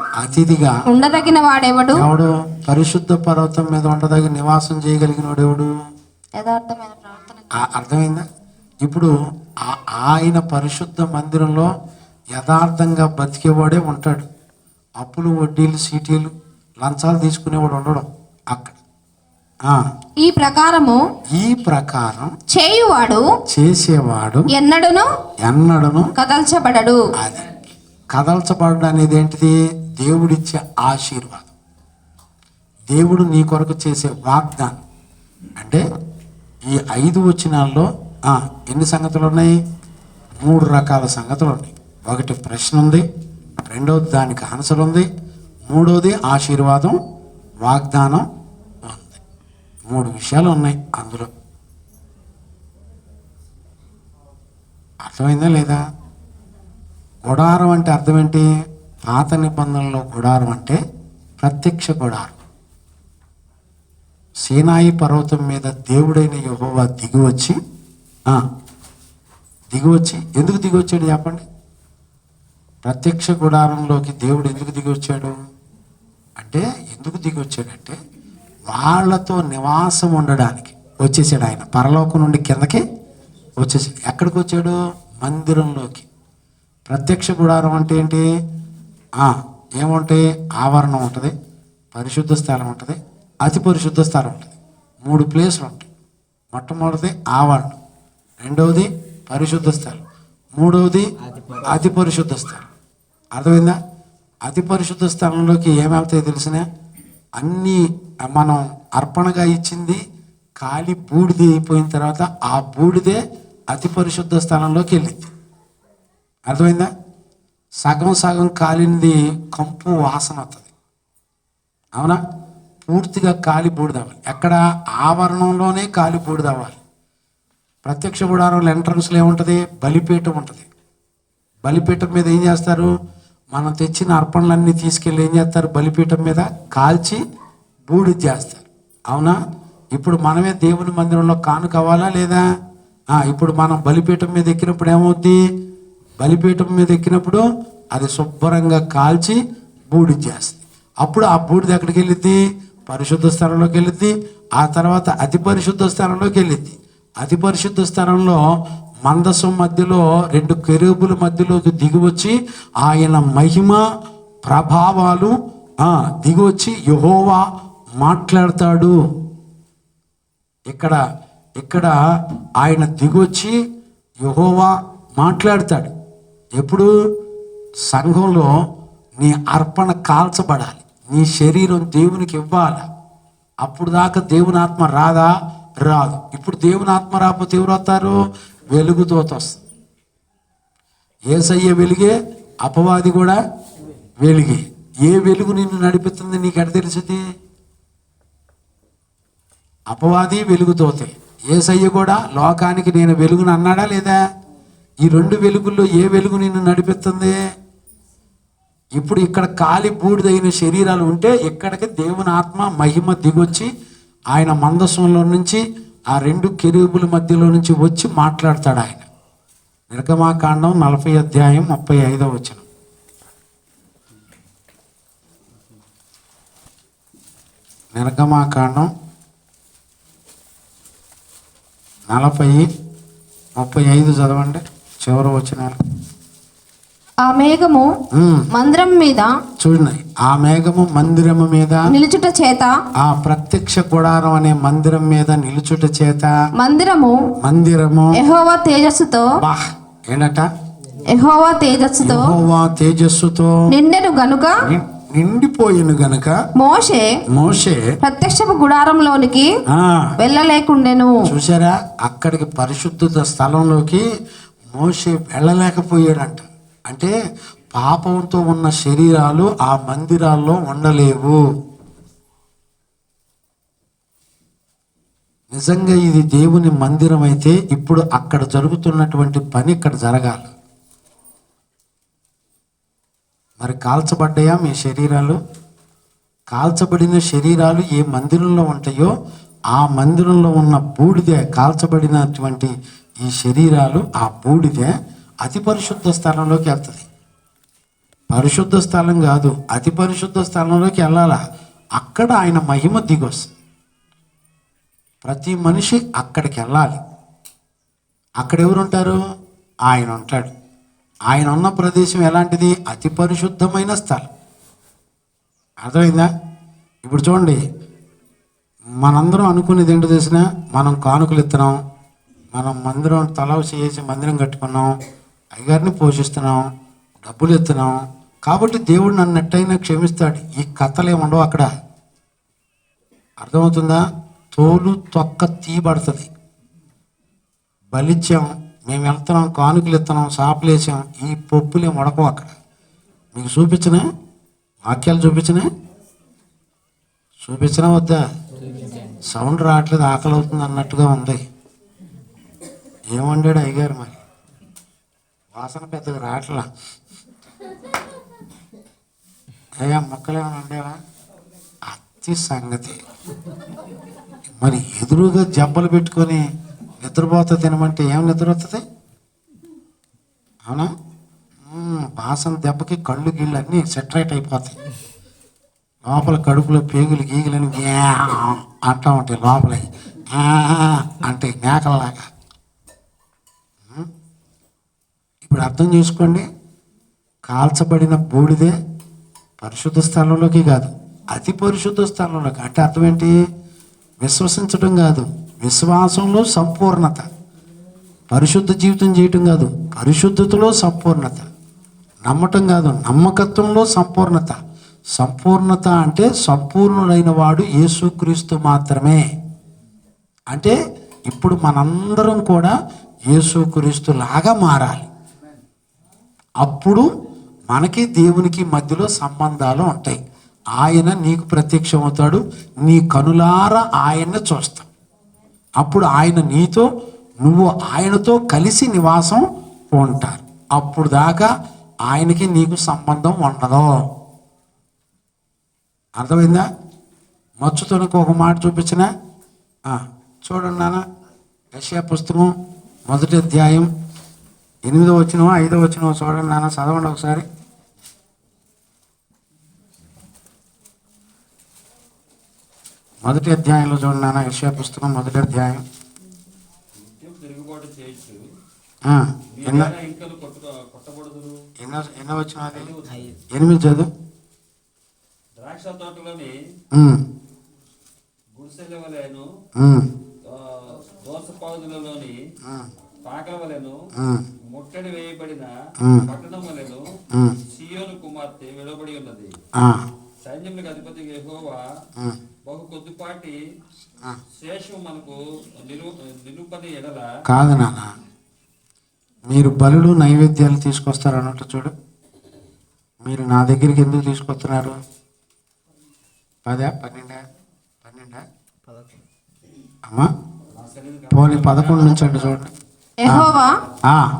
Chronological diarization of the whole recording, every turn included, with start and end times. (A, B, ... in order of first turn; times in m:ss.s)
0:00.2-0:00.8 A
0:00.9-0:02.1 B
0:01.9-0:05.7 A
0:06.4-0:07.5 B
0:07.5-0:08.2 A
0:08.8-0:11.7 A
0:12.3-0:14.2 A
0:15.0-0:18.8 A
0:20.2-0:21.0 B
0:21.4-0:22.3 A
0:22.5-0:23.2 B
0:23.5-0:24.5 A
0:24.5-0:25.1 B
0:25.4-0:26.1 A
0:26.2-0:27.0 B
0:27.2-0:27.5 A
0:28.1-0:31.5 A
0:32.9-0:34.8 A
0:35.6-0:35.8 A
0:36.7-0:39.6 A
0:40.4-0:43.0 A
0:43.7-0:45.1 A
0:45.7-0:47.0 A
0:47.6-0:48.3 A
0:48.8-0:49.2 A
0:49.9-0:51.3 A
0:55.0-0:55.8 A
0:57.2-0:58.5 A
0:59.1-1:00.8 A
1:01.4-1:02.4 A
1:04.4-1:07.6 A
1:09.7-1:11.4 A
1:12.8-1:15.3 A
1:16.4-1:17.9 A
1:18.7-1:22.8 A
1:23.6-1:26.1 A
1:26.9-1:28.2 A
1:29.2-1:31.3 A
1:31.9-1:34.5 A
1:35.0-1:35.9 A
1:36.5-1:37.8 A
1:38.4-1:40.0 A
1:40.6-1:41.1 A
1:41.6-1:42.7 A
1:43.3-1:43.8 A
1:44.4-1:46.6 A
1:47.4-1:50.0 A
1:50.6-1:55.3 A
1:56.5-1:56.9 A
1:57.8-2:00.7 A
2:02.9-2:06.8 A
2:07.8-2:10.6 A
2:11.6-2:12.9 A
2:13.5-2:17.2 A
2:17.9-2:19.4 A
2:19.9-2:22.4 A
2:23.1-2:25.4 A
2:26.2-2:29.4 A
2:29.9-2:38.4 A
2:39.0-2:43.8 A
2:44.4-2:47.4 A
2:48.0-2:48.9 A
2:50.7-2:51.0 A
2:51.6-2:52.0 A
2:52.6-2:53.5 A
2:54.2-2:55.9 A
2:56.6-2:56.9 A
2:57.9-2:58.5 A
2:59.2-3:02.8 A
3:03.6-3:05.3 A
3:05.8-3:08.2 A
3:08.7-3:09.6 A
3:11.3-3:13.4 A
3:14.2-3:17.2 A
3:19.9-3:24.2 A
3:25.0-3:27.3 A
3:29.0-3:33.7 A
3:34.3-3:39.0 A
3:39.9-3:42.6 A
3:47.9-3:48.9 A
3:52.1-3:52.7 A
3:53.6-3:55.8 A
3:57.2-3:57.9 B
3:58.1-3:58.5 A
3:58.5-3:59.3 B
3:59.6-4:01.9 A
4:01.9-4:02.7 B
4:03.0-4:06.3 A
4:06.6-4:07.2 B
4:07.4-4:08.2 A
4:08.1-4:09.3 B
4:09.4-4:10.5 A
4:11.1-4:12.4 B
4:12.0-4:13.6 A
4:13.7-4:14.6 B
4:14.6-4:16.4 A
4:16.6-4:17.1 B
4:17.3-4:17.9 A
4:18.0-4:19.5 B
4:19.7-4:20.1 A
4:20.2-4:21.2 B
4:21.2-4:24.0 A
4:24.7-4:27.1 A
4:27.7-4:31.4 A
4:35.5-4:40.5 A
4:43.6-4:45.4 A
4:46.5-4:49.1 A
4:49.7-4:52.7 A
4:53.2-4:57.0 A
4:58.3-5:01.4 A
5:02.0-5:03.5 A
5:05.2-5:07.0 A
5:08.4-5:09.2 A
5:09.8-5:10.5 A
5:11.3-5:14.3 A
5:15.8-5:16.3 A
5:17.0-5:17.6 A
5:19.0-5:21.8 A
5:22.5-5:24.9 A
5:25.5-5:26.7 A
5:27.2-5:31.7 A
5:33.4-5:36.3 A
5:37.9-5:42.5 A
5:43.3-5:44.0 A
5:44.8-5:45.7 A
5:47.4-5:48.2 A
5:49.3-5:51.4 A
5:53.1-5:54.2 A
5:55.5-5:56.6 A
5:59.8-6:01.0 A
6:01.8-6:03.0 A
6:04.6-6:06.4 A
6:07.0-6:08.8 A
6:11.6-6:14.8 A
6:16.1-6:22.3 A
6:23.8-6:24.1 A
6:25.4-6:26.4 A
6:27.5-6:28.7 A
6:29.6-6:33.3 A
6:34.2-6:37.3 A
6:38.3-6:41.5 A
6:42.2-6:44.6 A
6:45.2-6:49.2 A
6:51.3-6:52.7 A
6:53.3-6:55.1 A
6:56.6-6:57.0 A
6:57.7-7:00.2 A
7:00.8-7:04.9 A
7:05.8-7:06.9 A
7:07.4-7:11.5 A
7:12.0-7:13.9 A
7:16.2-7:16.6 A
7:17.6-7:19.1 A
7:19.8-7:21.0 A
7:21.7-7:22.5 A
7:23.1-7:23.9 A
7:24.9-7:27.4 A
7:33.2-7:35.8 A
7:37.0-7:38.4 C
7:39.0-7:39.9 A
7:39.6-7:41.6 C
7:41.8-7:42.9 A
7:42.7-7:43.4 C
7:43.5-7:44.1 A
7:45.6-7:46.5 C
7:46.9-7:47.2 A
7:48.5-7:49.4 C
7:49.8-7:50.1 A
7:50.5-7:52.4 C
7:52.6-7:52.9 A
7:53.2-7:54.0 C
7:54.2-7:54.4 A
7:54.7-7:55.7 C
7:56.0-7:56.3 A
7:56.2-7:57.0 C
7:57.3-7:57.6 A
7:57.7-7:59.5 C
7:59.8-8:00.0 A
8:00.4-8:01.8 C
8:02.7-8:03.6 C
8:04.6-8:07.3 C
8:07.4-8:08.1 A
8:09.5-8:11.9 A
8:13.2-8:15.0 A
8:16.6-8:17.4 A
8:18.0-8:18.4 A
8:20.7-8:22.6 C
8:21.3-8:22.7 A
8:23.2-8:23.7 B